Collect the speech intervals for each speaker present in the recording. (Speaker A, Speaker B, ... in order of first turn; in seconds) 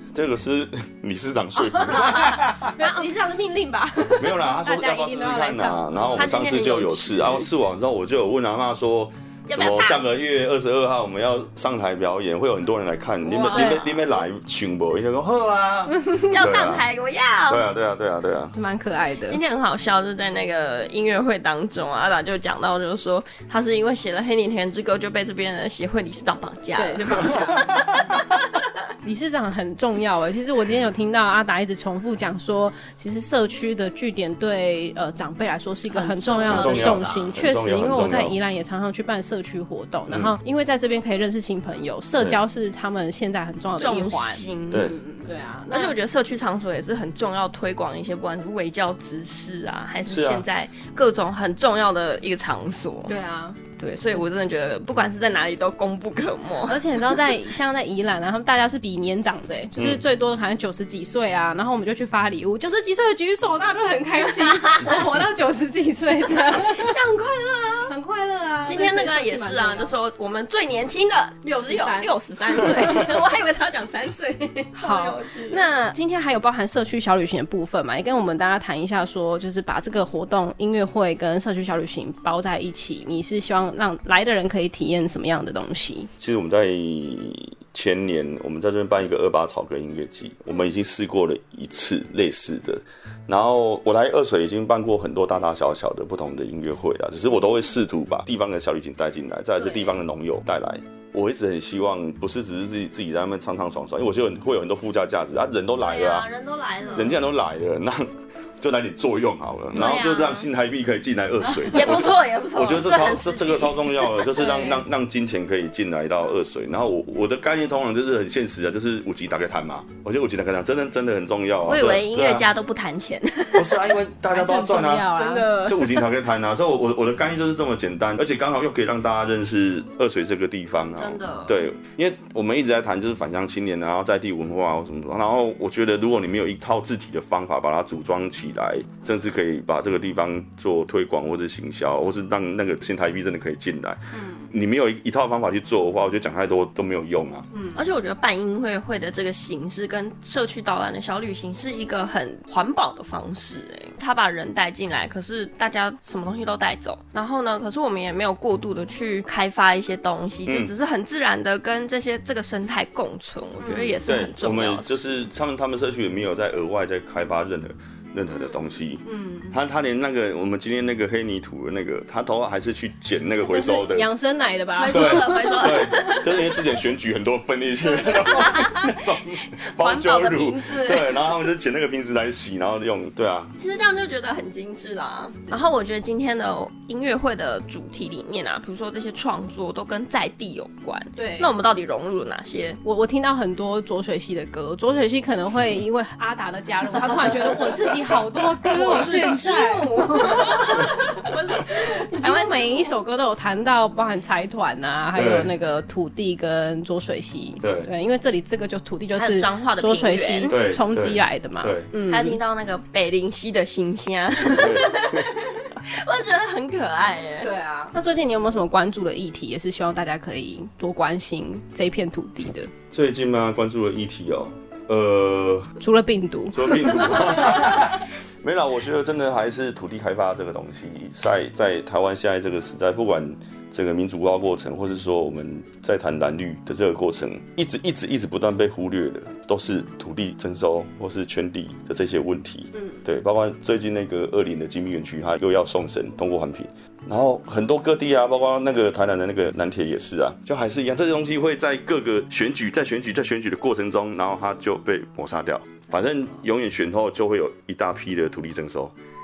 Speaker A: 0.1-2.7, 4.2-16.8, 17.5-18.6, 36.5-38.4, 40.1-40.3, 50.0-50.5, 86.2-106.3, 106.9-122.5, 123.5-147.5, 160.4-160.7, 164.0-174.1, 174.9-183.5, 205.1-205.5, 207.6-207.9, 210.5-211.9, 214.6-215.2, 222.9-225.7, 226.5-258.9
Speaker B: 1.6-6.3, 13.4-14.1, 18.5-19.4, 26.7-27.7, 29.0-46.0, 53.0-53.6, 56.7-67.0, 67.9-69.9, 71.4-73.1, 74.7-86.1, 124.3-125.5, 144.1-144.5, 147.5-147.9, 163.6-164.0, 169.0-169.6, 173.4-175.9, 191.2-191.5, 192.8-201.1, 201.8-212.4, 217.4-222.7, 225.8-227.6
Speaker C: 2.8-3.1, 6.1-7.5, 9.5-10.0, 13.3-13.8, 16.2-17.7, 19.2-28.0, 35.9-37.4, 43.8-44.9, 45.7-53.1, 53.8-56.8, 64.3-65.0, 66.4-67.9, 68.6-75.7, 99.6-100.0, 105.8-107.2, 109.7-110.5, 111.5-114.8, 121.6-124.0, 125.1-126.0, 130.9-131.5, 147.7-165.1, 174.8-176.4, 177.9-181.3, 183.6-192.8, 197.1-197.9, 198.6-202.9, 209.2-210.6, 212.0-217.5